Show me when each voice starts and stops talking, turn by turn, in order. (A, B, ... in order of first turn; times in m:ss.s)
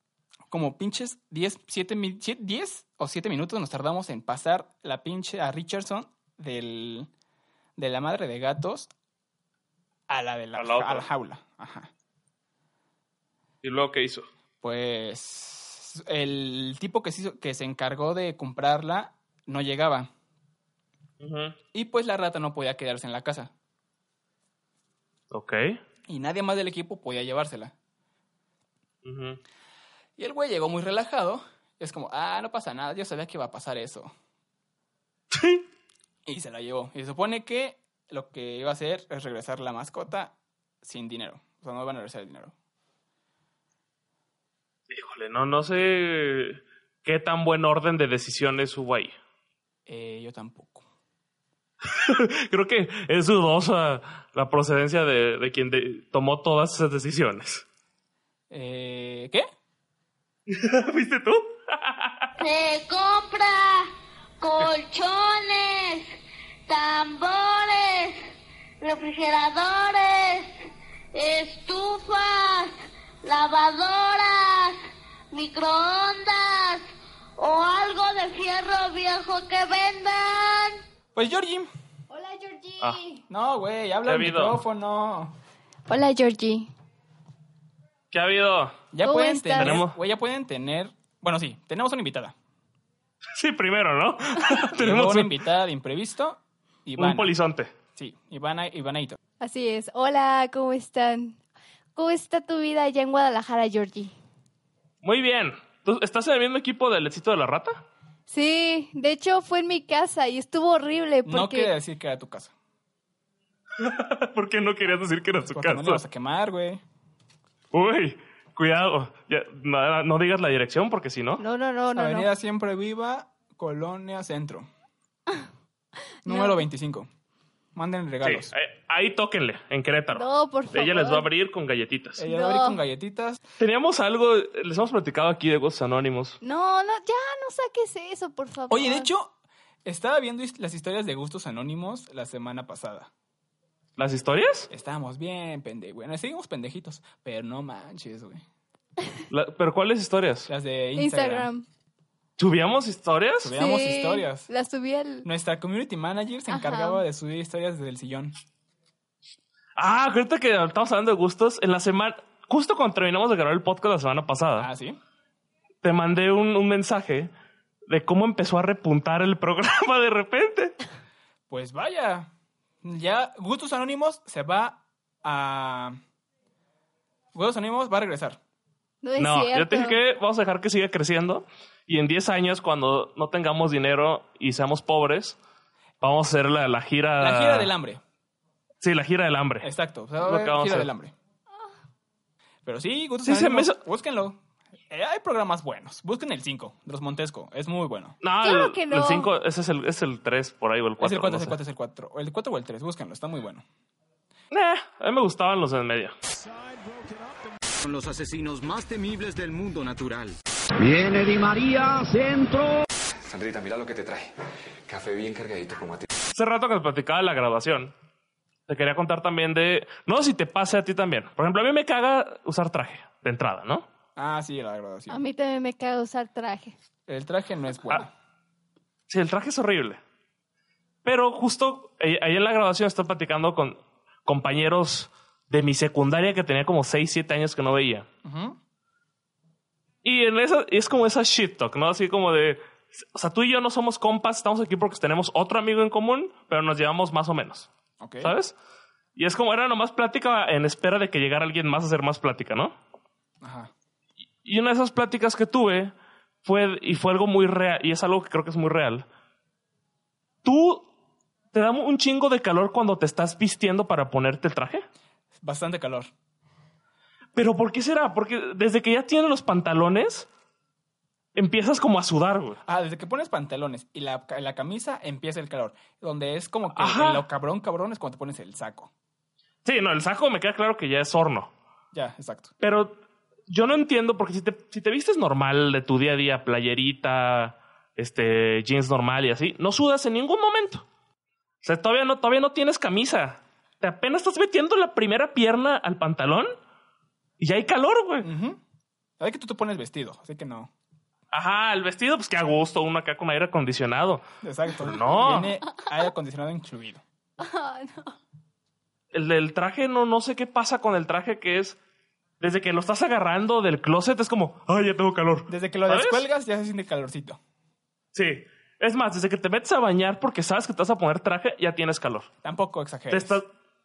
0:00.5-0:07.1 A
0:07.8-0:08.9 A
0:10.1-0:11.9 A
0:10.6-0:11.1 B
0:13.6-0:14.3 B
0:14.6-0:20.1 A
0:21.2-0:21.6 B
0:21.7-0:23.5 A
0:25.3-0:25.8 B
0:26.1-0:27.7 A
0:29.0-0:29.4 B
0:30.2-0:34.1 A
0:35.3-0:35.6 B
0:36.3-0:42.5 A
0:44.9-0:49.2 B
0:49.9-0:50.9 A
0:51.8-0:57.6 B
0:58.5-0:59.4 A
1:00.5-1:02.3 B
1:02.4-1:03.9 C
1:04.4-1:06.1 C
1:06.7-1:08.3 C
1:08.8-1:10.6 C
1:11.1-1:14.8 C
1:15.3-1:16.8 C
1:17.4-1:20.8 C
1:21.2-1:21.7 A
1:22.1-1:23.2 D
1:23.3-1:25.4 A
1:24.0-1:24.6 B
1:25.9-1:26.7 D
1:28.1-1:28.8 B
1:28.9-1:32.3 A
1:29.0-1:29.8 D
1:29.6-1:30.0 B
1:33.3-1:35.4 B
1:34.8-1:37.3 A
1:37.0-1:37.7 B
1:38.0-1:39.2 A
1:39.4-1:41.4 D
1:42.0-1:44.1 D
1:45.0-1:47.8 B
1:48.3-1:51.7 D
1:51.2-1:52.5 A
1:53.8-1:56.0 B
1:55.5-1:56.8 A
1:57.7-2:01.4 B
2:01.4-2:02.3 D
2:02.0-2:04.7 A
2:06.2-2:06.6 D
2:06.2-2:07.1 A
2:07.8-2:08.5 A
2:08.2-2:12.2 B
2:10.1-2:11.3 D
2:12.2-2:13.4 A
2:12.3-2:12.8 D
2:13.6-2:16.4 B
2:16.4-2:19.1 D
2:18.7-2:19.3 A
2:19.8-2:23.1 A
2:24.0-2:24.7 B
2:24.7-2:28.4 A
2:29.3-2:30.5 B
2:30.5-2:31.5 A
2:31.0-2:31.6 D
2:32.4-2:33.6 B
2:33.4-2:34.5 A
2:33.6-2:35.3 D
2:35.2-2:38.4 A
2:36.5-2:37.0 D
2:39.8-2:44.7 B
2:44.6-2:45.0 A
2:45.8-2:47.3 B
2:47.9-2:50.8 B
2:51.5-2:52.3 A
2:52.8-2:56.0 A
2:57.4-2:58.4 A
2:59.0-3:00.0 D
2:59.2-3:05.4 B
3:06.0-3:07.7 B
3:07.2-3:08.0 A
3:08.8-3:10.9 B
3:09.6-3:11.1 A
3:12.7-3:14.4 A
3:13.2-3:13.8 B
3:14.9-3:18.2 A
3:18.2-3:21.6 B
3:18.4-3:19.3 D
3:21.0-3:23.6 A
3:24.5-3:26.2 B
3:26.8-3:27.3 E
3:27.8-3:30.4 E
3:30.8-3:32.8 F
3:33.2-3:34.3 G
3:34.9-3:36.1 G
3:36.3-3:37.9 B
3:38.7-3:43.9 B
3:44.2-3:45.2 A
3:45.1-3:46.8 D
3:47.1-3:48.1 A
3:49.1-3:50.0 B
3:51.0-3:58.1 B
3:58.2-3:58.6 A
4:00.0-4:07.7 B
4:08.0-4:08.4 A
4:08.2-4:08.6 B
4:09.2-4:12.8 B
4:13.4-4:13.7 A
4:14.4-4:15.9 B
4:16.4-4:19.1 B
4:20.4-4:20.9 B
4:21.5-4:24.9 B
4:25.4-4:26.1 A
4:27.4-4:30.3 B
4:31.4-4:32.6 B
4:32.7-4:38.9 A
4:36.7-4:37.2 B
4:39.6-4:41.5 B
4:41.9-4:42.5 A
4:42.6-4:50.9 B
4:51.6-4:56.5 B
4:57.4-4:58.3 B
4:58.2-4:58.6 A
4:59.2-5:00.7 A
5:01.3-5:04.2 B
5:04.4-5:07.0 A
5:04.8-5:05.6 B
5:07.4-5:08.2 D
5:09.1-5:11.8 B
5:12.4-5:16.2 B
5:15.5-5:17.4 A
5:18.1-5:22.3 B
5:22.4-5:23.4 A
5:23.1-5:23.5 B